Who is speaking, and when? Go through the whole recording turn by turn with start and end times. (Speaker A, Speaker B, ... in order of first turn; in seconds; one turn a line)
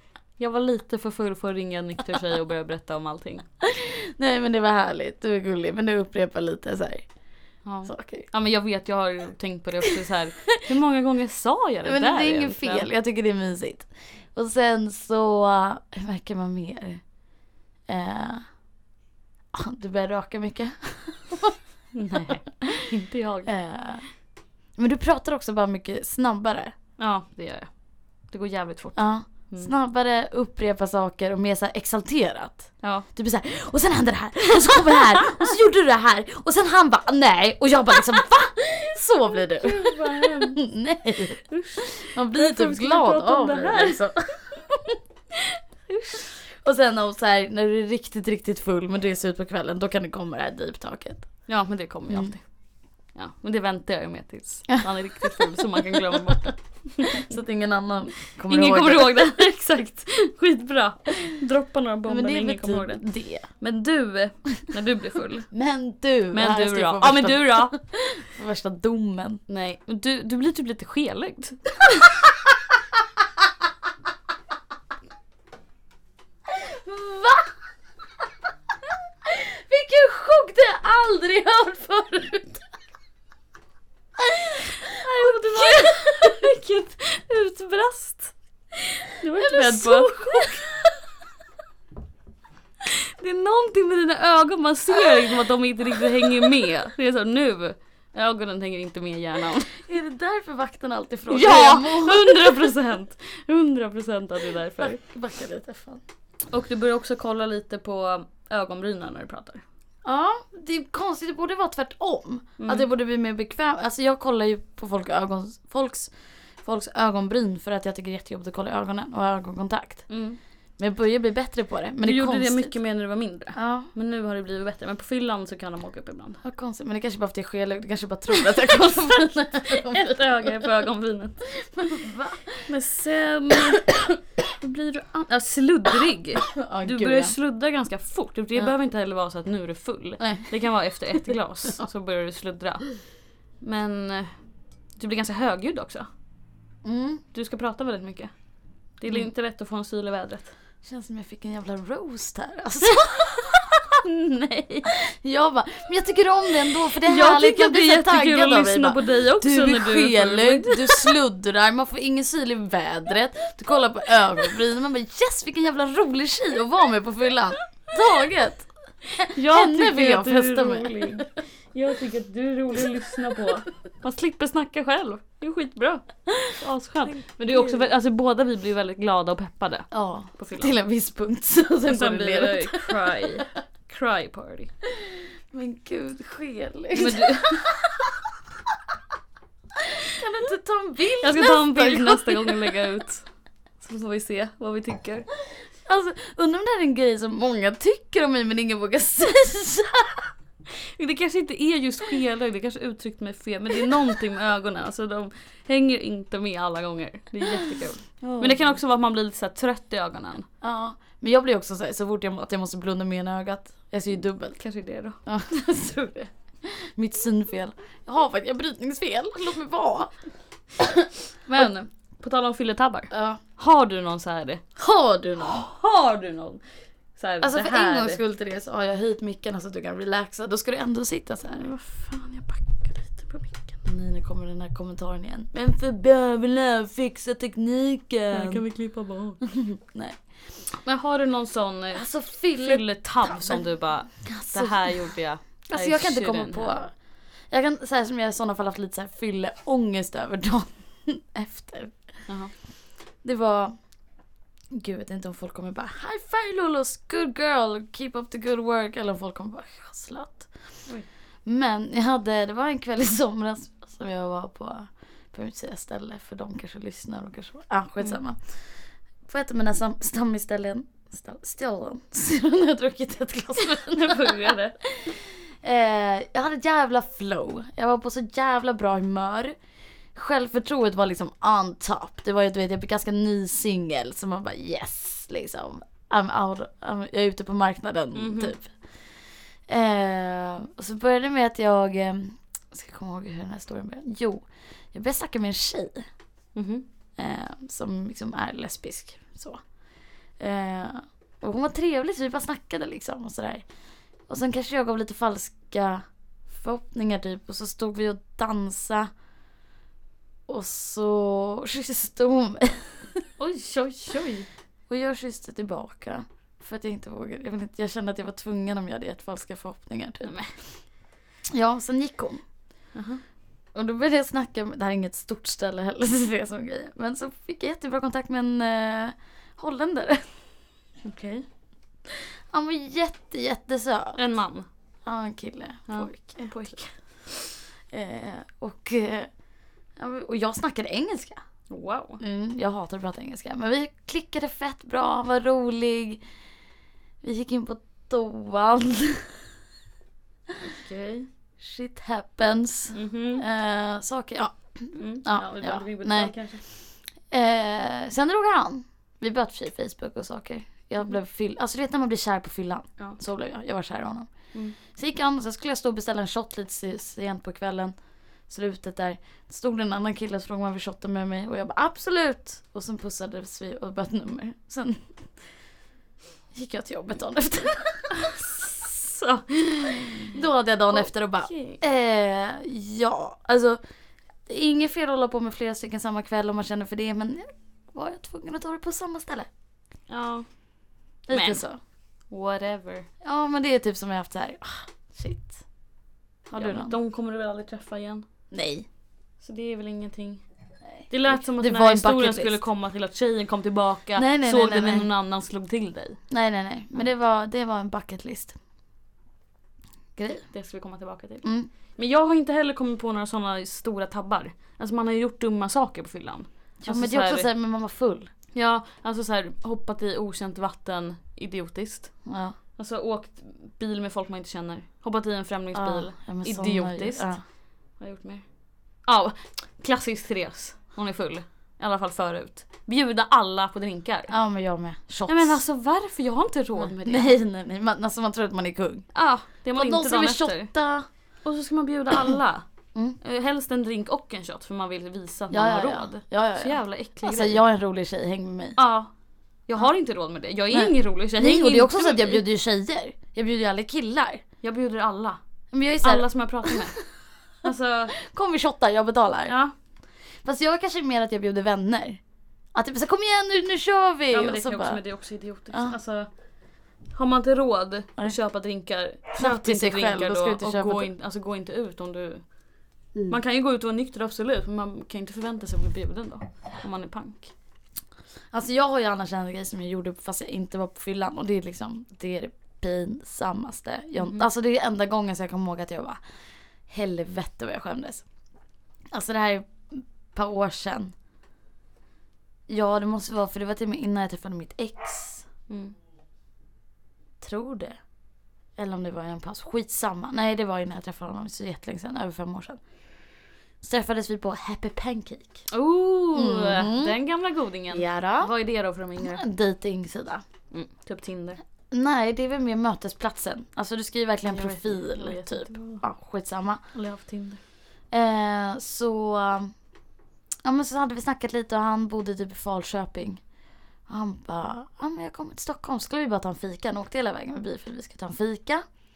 Speaker A: 0.4-3.4
Speaker B: 3.6-7.1
Speaker A: 7.7-12.9
Speaker B: 7.8-8.3
Speaker B: 11.8-17.0
Speaker B: 17.9-18.4
Speaker B: 19.5-21.6
Speaker A: 21.9-23.5
Speaker B: 22.3-22.9
Speaker B: 23.5-24.0
Speaker B: 24.8-26.7
Speaker A: 27.0-27.7
Speaker A: 28.3-29.7
Speaker B: 28.9-45.0
Speaker A: 39.6-40.6
Speaker A: 41.5-44.0
Speaker A: 45.9-46.3
Speaker B: 46.5-51.3
Speaker A: 51.5-52.4
Speaker A: 53.1-57.3
Speaker B: 57.0-59.4
Speaker A: 58.5-63.0
Speaker B: 62.1-63.5
Speaker A: 63.6-65.5
Speaker B: 65.5-69.4
Speaker A: 66.3-67.7
Speaker A: 69.5-72.0
Speaker B: 76.5-77.5
Speaker B: 78.8-82.6
Speaker B: 84.2-86.4
Speaker A: 84.8-88.3
Speaker A: 89.2-90.6
Speaker B: 89.4-91.1
Speaker A: 92.9-99.8
Speaker B: 99.8-102.7
Speaker A: 101.3-105.0
Speaker B: 104.8-106.0
Speaker A: 106.5-109.6
Speaker B: 110.0-116.1
Speaker A: 112.6-112.8
Speaker B: 116.6-120.1
Speaker A: 120.1-120.4
Speaker B: 120.8-122.7
Speaker A: 122.0-126.4
Speaker B: 123.5-123.9
Speaker B: 126.4-130.5
Speaker A: 129.6-131.5
Speaker B: 131.6-132.6
Speaker A: 132.6-142.9
Speaker B: 136.4-137.3
Speaker B: 140.2-140.5
Speaker A: 143.6-144.3
Speaker A: 145.0-146.1
Speaker B: 146.8-147.2
Speaker A: 147.3-148.3
Speaker A: 149.0-150.5
Speaker B: 150.8-153.8
Speaker A: 153.0-154.9
Speaker B: 154.9-171.3
Speaker A: 157.0-161.1
Speaker A: 169.3-180.7
Speaker B: 177.1-177.8
Speaker B: 179.9-183.3
Speaker A: 181.9-184.7
Speaker B: 184.9-188.2
Speaker A: 186.9-187.7
Speaker B: 189.8-192.8
Speaker A: 191.2-193.3
Speaker A: 193.8-195.2
Speaker B: 195.8-200.3
Speaker A: 201.0-210.5
Speaker B: 208.2-208.7
Speaker B: 210.6-214.6
Speaker A: 214.6-215.2
Speaker B: 215.2-220.1
Speaker B: 220.7-221.7
Speaker A: 221.4-224.6
Speaker B: 223.1-223.4
Speaker B: 224.8-225.6
Speaker A: 225.4-226.6
Speaker A: 227.2-228.2
Speaker B: 227.4-231.7
Speaker A: 231.5-233.8
Speaker B: 233.8-238.6
Speaker A: 238.3-239.4
Speaker B: 239.4-240.2
Speaker A: 240.8-242.1
Speaker B: 241.9-245.0
Speaker A: 242.6-246.8
Speaker B: 245.7-246.9
Speaker B: 247.5-251.9
Speaker B: 253.2-253.8
Speaker B: 254.7-260.7
Speaker B: 261.4-268.6
Speaker B: 269.2-279.6
Speaker A: 273.9-274.8
Speaker B: 280.1-288.8
Speaker A: 288.1-288.5
Speaker B: 289.7-296.1
Speaker A: 296.6-296.9
Speaker B: 297.2-299.6
Speaker B: 300.4-303.6
Speaker B: 304.3-309.1
Speaker B: 310.5-313.2
Speaker A: 313.4-314.5
Speaker B: 314.9-320.3
Speaker A: 320.2-320.5
Speaker B: 321.5-322.4
Speaker A: 322.9-323.2
Speaker B: 323.7-330.3
Speaker A: 331.0-331.4
Speaker B: 332.1-334.2
Speaker A: 334.1-334.7
Speaker B: 335.1-336.9
Speaker A: 335.9-336.9
Speaker B: 337.9-339.3
Speaker B: 340.0-341.4
Speaker A: 341.7-342.2
Speaker B: 342.2-346.2
Speaker B: 347.2-349.5
Speaker A: 350.6-351.3
Speaker B: 351.6-356.3
Speaker A: 352.9-353.4
Speaker A: 354.9-356.6
Speaker B: 357.3-364.3
Speaker B: 364.9-367.9
Speaker B: 368.5-375.1
Speaker B: 376.5-378.1
Speaker A: 378.1-380.3
Speaker B: 379.8-383.8
Speaker A: 380.9-381.8
Speaker B: 384.4-389.5
Speaker A: 390.1-390.5
Speaker B: 391.3-391.8
Speaker A: 391.3-391.6
Speaker A: 392.3-393.1
Speaker B: 393.2-395.6
Speaker B: 396.5-396.9
Speaker A: 396.5-398.2
Speaker B: 398.5-398.9
Speaker A: 399.4-400.4
Speaker B: 401.0-402.6
Speaker A: 401.1-406.2
Speaker B: 404.1-405.1
Speaker B: 406.3-408.6
Speaker B: 410.1-410.4
Speaker A: 410.5-417.5
Speaker B: 411.4-411.7
Speaker B: 416.8-418.3
Speaker A: 418.5-422.1
Speaker B: 422.2-422.6
Speaker A: 422.8-427.3
Speaker B: 425.7-427.4
Speaker A: 428.0-428.4
Speaker A: 429.0-434.3
Speaker B: 434.3-435.6
Speaker A: 435.3-437.4
Speaker B: 436.8-439.1
Speaker A: 439.1-440.7
Speaker B: 439.7-441.1
Speaker A: 441.4-442.6
Speaker A: 443.2-447.6
Speaker B: 445.5-448.8
Speaker A: 448.8-449.1
Speaker A: 449.7-452.4
Speaker B: 450.7-454.4
Speaker A: 454.6-455.4
Speaker B: 455.7-457.0
Speaker A: 456.0-457.0
Speaker A: 457.6-458.1
Speaker B: 458.1-459.5
Speaker A: 459.5-459.7
Speaker B: 460.4-462.2
Speaker B: 462.7-465.0
Speaker A: 464.3-466.3
Speaker A: 467.1-472.5
Speaker B: 469.4-471.1
Speaker A: 473.3-477.5
Speaker B: 478.5-486.2
Speaker A: 484.2-484.4
Speaker B: 486.9-488.2
Speaker B: 489.1-491.1
Speaker B: 492.7-495.5
Speaker A: 495.7-495.9
Speaker B: 497.4-498.0
Speaker B: 498.8-502.8
Speaker B: 503.8-505.7
Speaker A: 505.7-509.4
Speaker B: 506.3-507.1
Speaker B: 507.9-508.5
Speaker B: 509.2-510.4
Speaker A: 510.7-511.6
Speaker B: 511.9-516.8
Speaker A: 514.5-516.0
Speaker A: 516.9-517.6
Speaker B: 518.1-519.7
Speaker B: 520.6-523.4
Speaker B: 524.1-528.8